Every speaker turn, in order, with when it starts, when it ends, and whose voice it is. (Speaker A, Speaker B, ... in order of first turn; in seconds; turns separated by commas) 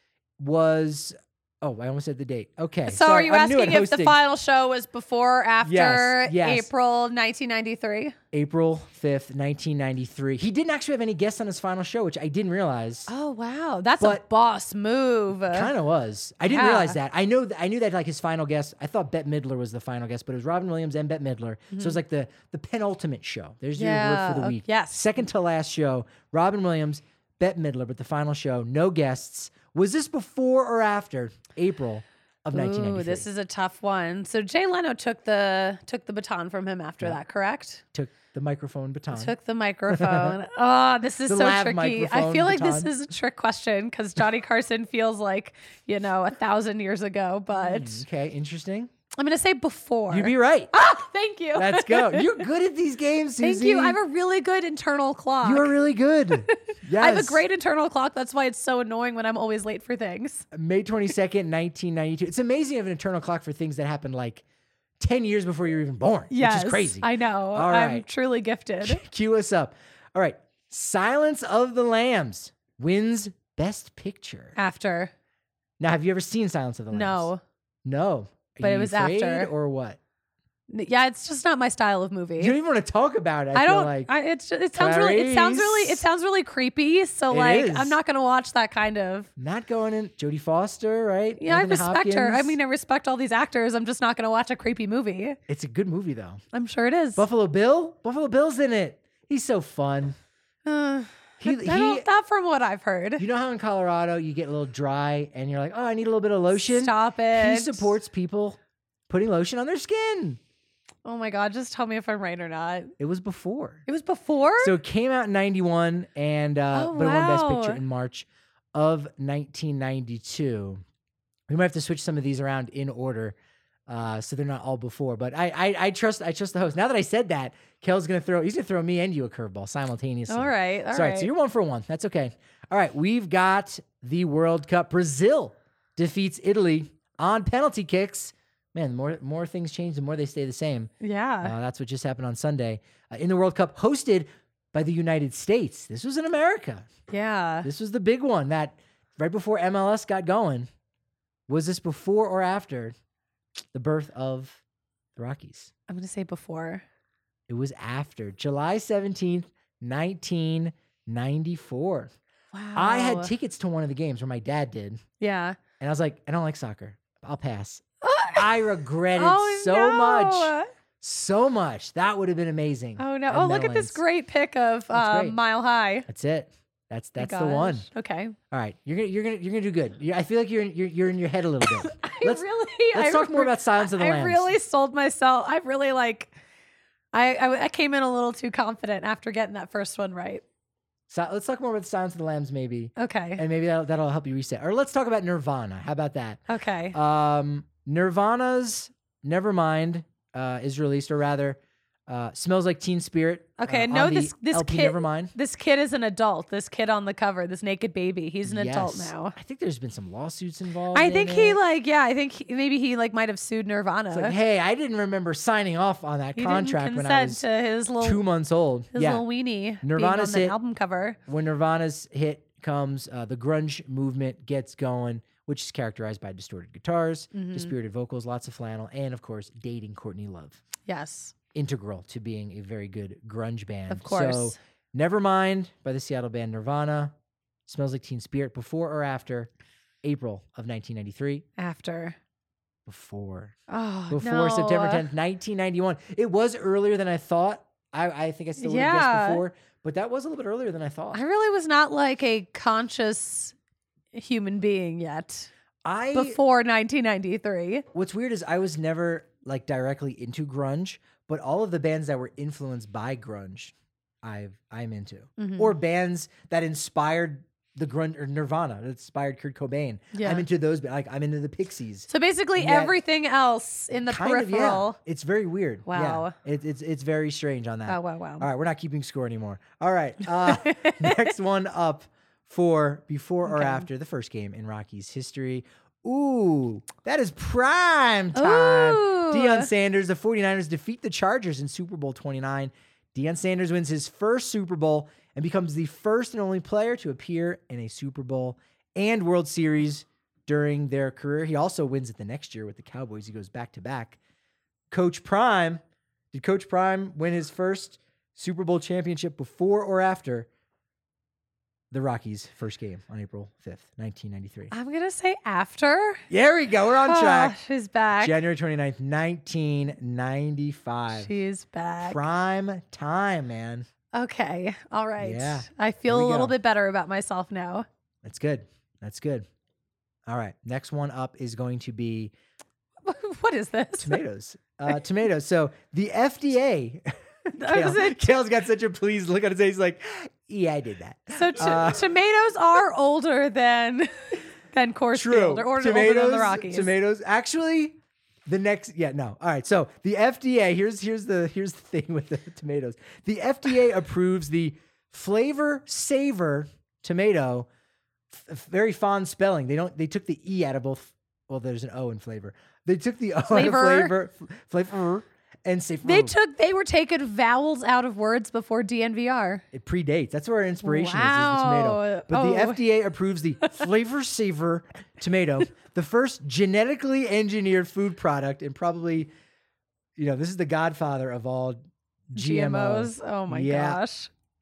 Speaker A: 0.4-4.2, Speaker B: 2.9-8.2, Speaker A: 5.6-6.7, Speaker A: 8.3-13.1, Speaker B: 13.1-15.7, Speaker A: 14.0-14.2, Speaker A: 15.4-33.3, Speaker B: 16.5-17.0, Speaker B: 21.7-22.0, Speaker B: 23.8-25.2, Speaker B: 32.5-37.8, Speaker A: 37.9-39.4, Speaker B: 39.1-48.0, Speaker A: 39.9-40.4, Speaker A: 41.2-43.0, Speaker A: 47.5-48.9, Speaker B: 49.2-52.4, Speaker A: 50.1-50.7, Speaker A: 51.5-54.0, Speaker B: 53.4-55.7, Speaker A: 55.4-57.4, Speaker B: 56.5-60.5, Speaker A: 60.5-64.4, Speaker A: 65.0-68.1, Speaker B: 66.3-69.0, Speaker A: 68.8-74.6, Speaker B: 74.6-75.1, Speaker A: 75.8-77.3, Speaker B: 76.9-77.4, Speaker A: 77.8-80.0, Speaker B: 78.6-79.5, Speaker B: 80.7-82.5, Speaker A: 82.4-84.1, Speaker B: 83.5-89.3, Speaker A: 84.7-86.1, Speaker A: 87.3-88.0, Speaker A: 89.4-92.6, Speaker B: 91.4-95.4, Speaker A: 95.5-96.4, Speaker B: 96.5-97.2, Speaker A: 97.2-100.2, Speaker B: 100.6-103.2, Speaker A: 101.4-102.1, Speaker A: 103.2-110.4, Speaker B: 106.5-107.9, Speaker B: 111.0-112.9, Speaker A: 113.0-113.8, Speaker B: 113.9-114.8, Speaker A: 114.6-120.8, Speaker B: 116.7-117.8, Speaker A: 121.5-123.4, Speaker A: 123.9-146.9, Speaker B: 130.3-131.3, Speaker B: 141.0-141.5, Speaker B: 147.1-147.7, Speaker A: 147.6-150.7, Speaker A: 151.5-152.9, Speaker A: 153.7-154.6, Speaker A: 155.2-155.7, Speaker B: 155.9-156.8, Speaker A: 157.5-162.1, Speaker B: 162.5-163.3, Speaker A: 162.7-165.0, Speaker B: 165.2-165.6, Speaker A: 165.8-174.0, Speaker B: 168.0-168.5, Speaker B: 169.1-170.7, Speaker B: 173.0-176.1, Speaker A: 174.9-175.4, Speaker A: 176.1-177.9, Speaker B: 177.2-178.4, Speaker A: 178.5-184.6, Speaker B: 181.6-186.3, Speaker B: 187.1-190.4, Speaker A: 191.1-205.3, Speaker B: 193.0-193.4, Speaker B: 196.5-196.9, Speaker B: 203.6-209.3, Speaker A: 208.4-211.6, Speaker B: 210.9-214.4, Speaker A: 214.1-217.4, Speaker B: 216.4-218.2, Speaker A: 218.0-219.3, Speaker B: 218.9-221.2, Speaker A: 219.8-220.6, Speaker A: 221.3-230.6, Speaker B: 227.3-227.7, Speaker B: 230.9-231.3, Speaker A: 231.5-237.1, Speaker B: 233.9-234.6, Speaker A: 237.7-239.5, Speaker A: 240.0-241.4, Speaker B: 241.6-242.2, Speaker A: 242.9-243.6, Speaker B: 243.7-245.1, Speaker A: 244.1-251.2, Speaker B: 248.6-249.4, Speaker B: 251.1-253.6, Speaker B: 254.1-255.5, Speaker A: 255.8-256.4, Speaker B: 256.1-257.9, Speaker A: 257.9-272.9, Speaker B: 265.4-265.8, Speaker B: 270.1-270.4, Speaker B: 272.1-275.0, Speaker A: 274.0-304.2, Speaker B: 275.9-276.4, Speaker B: 277.9-278.5, Speaker B: 280.4-281.3, Speaker B: 283.4-283.9, Speaker B: 288.4-289.7, Speaker A: 304.9-305.8, Speaker A: 306.3-310.5, Speaker A: 311.9-314.7, Speaker B: 314.7-316.2, Speaker A: 316.3-317.6, Speaker B: 317.0-318.4, Speaker A: 318.2-321.3, Speaker B: 321.1-322.2, Speaker A: 322.0-323.9, Speaker B: 324.1-327.9, Speaker A: 325.2-326.6, Speaker A: 328.2-329.5, Speaker A: 330.3-332.3, Speaker B: 333.0-334.2, Speaker A: 334.0-342.1, Speaker B: 337.6-338.3, Speaker B: 341.4-346.9, Speaker A: 345.1-357.7, Speaker A: 358.3-366.4, Speaker B: 363.5-364.1, Speaker B: 366.0-369.6, Speaker A: 369.7-379.3, Speaker B: 370.8-372.8, Speaker A: 380.2-384.0, Speaker B: 382.4-384.3